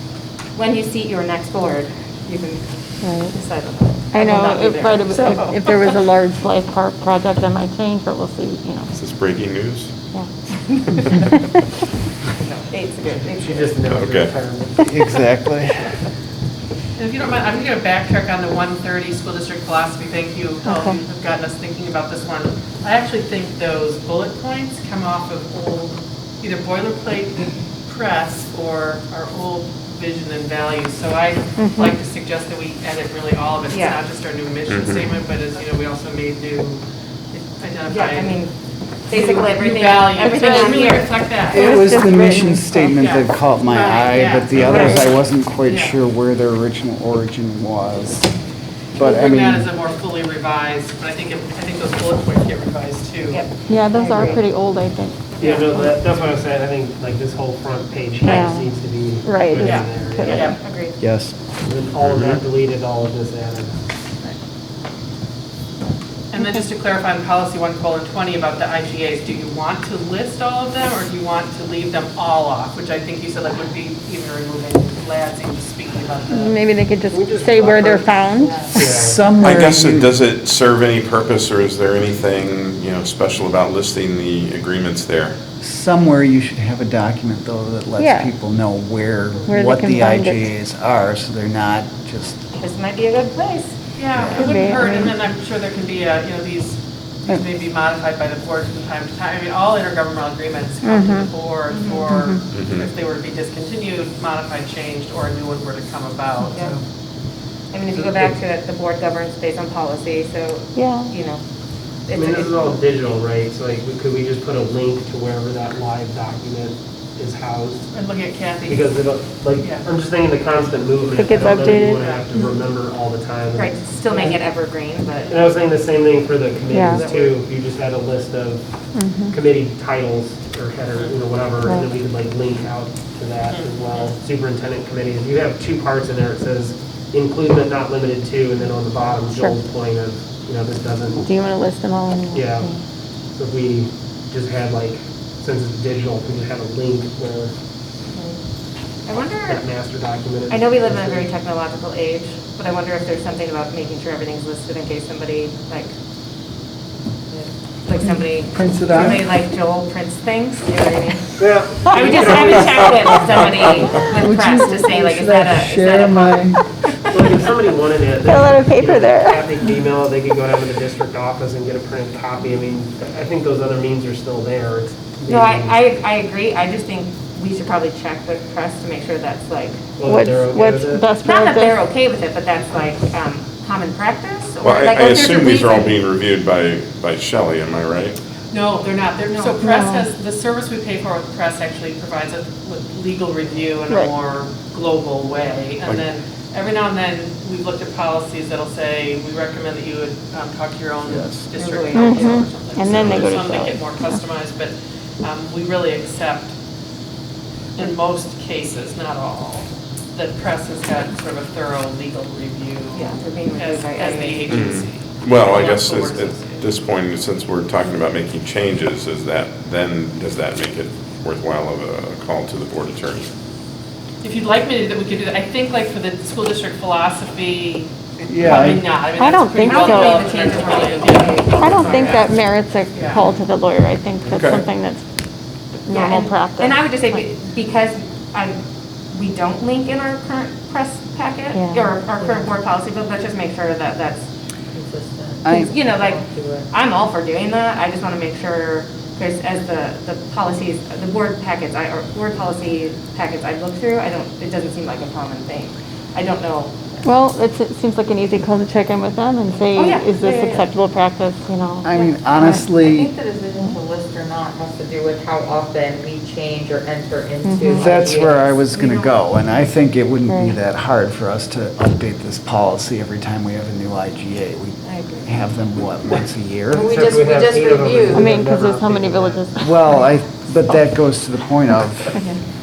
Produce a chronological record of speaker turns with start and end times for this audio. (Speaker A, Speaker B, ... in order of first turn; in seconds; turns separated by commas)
Speaker A: 0.5-5.7, Speaker B: 3.0-3.3, Speaker B: 4.1-8.9, Speaker C: 8.9-9.9, Speaker B: 10.1-11.6, Speaker A: 12.4-13.7, Speaker D: 13.3-15.1, Speaker C: 13.9-14.4, Speaker E: 14.8-15.9, Speaker F: 17.0-38.4, Speaker B: 20.7-21.0, Speaker B: 31.6-31.9, Speaker A: 33.7-34.0, Speaker C: 34.7-35.0, Speaker A: 37.9-38.5, Speaker A: 39.1-41.2, Speaker F: 39.1-41.8, Speaker B: 40.2-42.9, Speaker E: 41.5-48.3, Speaker F: 42.9-46.0, Speaker A: 44.7-45.0, Speaker E: 49.0-49.7, Speaker F: 49.0-53.5, Speaker A: 53.3-54.4, Speaker B: 53.7-55.3, Speaker D: 54.1-54.4, Speaker D: 55.4-60.6, Speaker A: 55.4-55.7, Speaker B: 58.2-60.5, Speaker F: 59.6-60.6, Speaker A: 60.3-61.0, Speaker E: 61.0-61.3, Speaker D: 61.6-63.8, Speaker C: 62.0-62.4, Speaker F: 66.3-76.6, Speaker B: 76.3-78.6, Speaker D: 77.1-79.3, Speaker E: 78.8-80.1, Speaker C: 79.4-85.3, Speaker E: 85.6-92.4, Speaker B: 88.0-88.3, Speaker B: 89.5-90.5, Speaker A: 92.6-93.8, Speaker F: 94.0-106.6, Speaker B: 94.3-95.1, Speaker B: 100.8-101.3, Speaker A: 101.7-102.1, Speaker B: 102.1-102.4, Speaker C: 102.5-102.9, Speaker A: 106.5-106.8, Speaker A: 107.7-111.4, Speaker D: 107.9-108.4, Speaker B: 110.8-111.1, Speaker A: 112.1-112.8, Speaker D: 112.1-117.9, Speaker F: 117.9-119.0, Speaker D: 118.6-124.4, Speaker F: 119.6-119.9, Speaker B: 121.1-122.1, Speaker F: 121.3-122.3, Speaker A: 123.6-125.5, Speaker D: 125.3-128.7, Speaker B: 126.7-127.1, Speaker A: 126.8-127.3, Speaker B: 128.9-129.4, Speaker D: 129.3-141.3, Speaker B: 131.7-131.9, Speaker F: 133.5-134.0, Speaker B: 139.3-139.6, Speaker B: 141.2-142.8, Speaker D: 142.3-142.7, Speaker D: 143.3-147.5, Speaker A: 148.1-148.4, Speaker A: 149.1-149.6, Speaker D: 149.4-151.3, Speaker A: 150.5-155.9, Speaker A: 157.3-166.6, Speaker E: 158.0-159.3, Speaker D: 161.4-163.2, Speaker E: 164.1-166.6, Speaker D: 167.1-175.8, Speaker B: 168.2-169.4, Speaker A: 175.3-179.8, Speaker D: 180.0-181.1, Speaker B: 180.0-181.8, Speaker A: 181.2-185.9, Speaker C: 184.6-188.2, Speaker F: 188.5-206.5, Speaker A: 189.3-189.6, Speaker B: 189.6-190.1, Speaker E: 201.1-201.4, Speaker A: 201.5-202.4, Speaker B: 201.9-204.1, Speaker F: 207.8-216.7, Speaker A: 212.9-214.7, Speaker C: 214.5-223.3, Speaker F: 224.2-232.4, Speaker E: 228.2-229.0, Speaker B: 229.2-230.3, Speaker A: 229.6-232.3, Speaker B: 231.5-235.0, Speaker F: 232.9-233.2, Speaker C: 234.3-234.7, Speaker B: 235.9-237.2, Speaker A: 235.9-238.6, Speaker A: 239.1-244.2, Speaker B: 241.5-242.0, Speaker G: 242.2-242.5, Speaker G: 244.7-246.7, Speaker E: 245.4-245.7, Speaker A: 245.5-257.0, Speaker B: 257.0-261.9, Speaker A: 259.7-260.6, Speaker E: 261.8-263.1, Speaker G: 262.4-268.6, Speaker B: 267.4-267.9, Speaker E: 267.7-277.1, Speaker A: 268.1-269.2, Speaker B: 270.3-270.6, Speaker A: 274.8-275.4, Speaker G: 276.7-278.3, Speaker D: 276.8-279.4, Speaker B: 278.1-280.8, Speaker E: 279.6-282.1